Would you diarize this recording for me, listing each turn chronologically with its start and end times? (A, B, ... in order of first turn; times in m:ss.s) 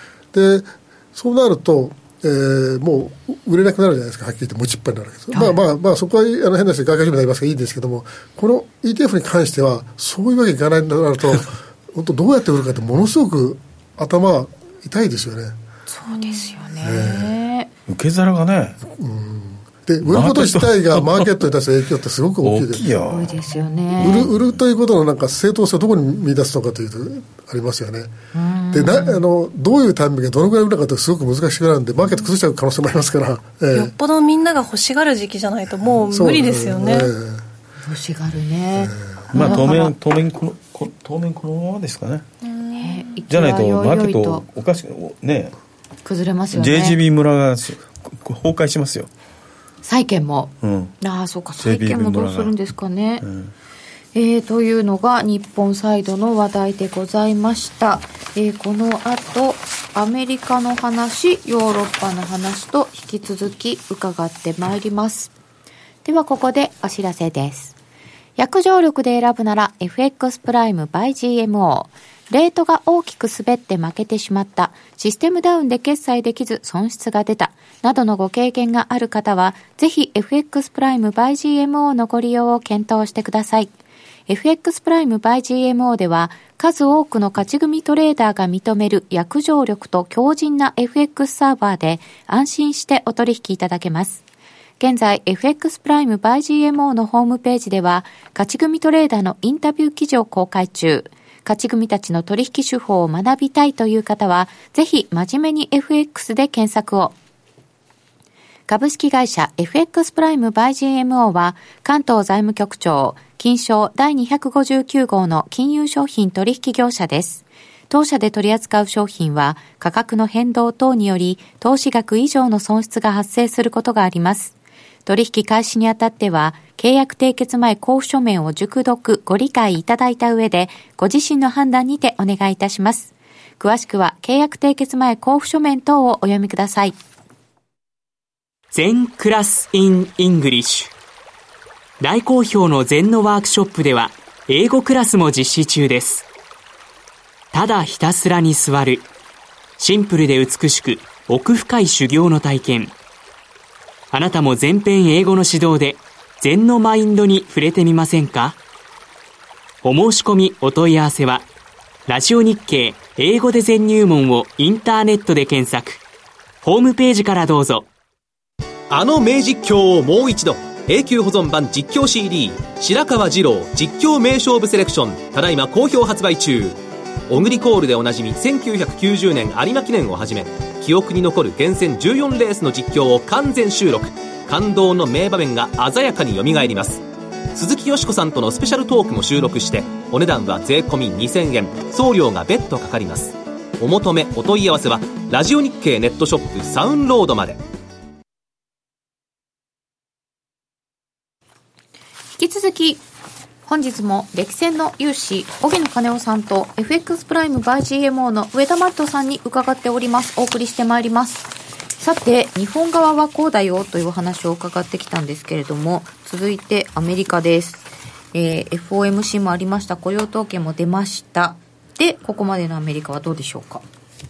0:00.3-0:15.6 A
0:05.3-0:05.6 B
0:15.9-0:17.7 B
0:16.8-0:17.4 A
0:17.9-0:18.8 C
0:18.8-0:22.8 A
0:20.0-0:21.4 C
0:22.4-0:23.4 C
0:23.1-0:24.3 B
0:24.0-0:28.1 A
0:28.3-0:29.2 B
0:28.7-0:33.9 A
0:33.7-0:37.1 D
0:35.9-0:37.4 A
0:37.8-0:40.0 B
0:38.8-0:39.3 A
0:39.3-0:42.3 C
0:42.4-0:43.1 D
0:42.8-0:44.4 B
0:43.3-0:45.6 C
0:46.0-0:47.0 B
0:46.5-0:49.1 C
0:49.8-0:53.3 B
0:50.6-0:50.9 C
0:51.6-0:52.5 C
0:53.2-0:53.5 C
0:54.1-1:05.3 B
1:06.0-1:07.8 B
1:08.4-1:23.7 B
1:24.3-1:34.2 B
1:34.8-1:47.1 B
1:48.7-2:04.5 B
2:05.1-2:17.0 B
2:18.7-2:20.9 E
2:22.0-2:26.3 E
2:27.5-2:29.1 E
2:29.8-2:33.0 E
2:34.1-2:38.6 E
2:39.8-2:41.5 E
2:42.1-2:46.0 E
2:46.6-2:47.9 E
2:48.9-3:17.6 F
3:22.4-3:23.0 B
3:23.7-3:43.8 B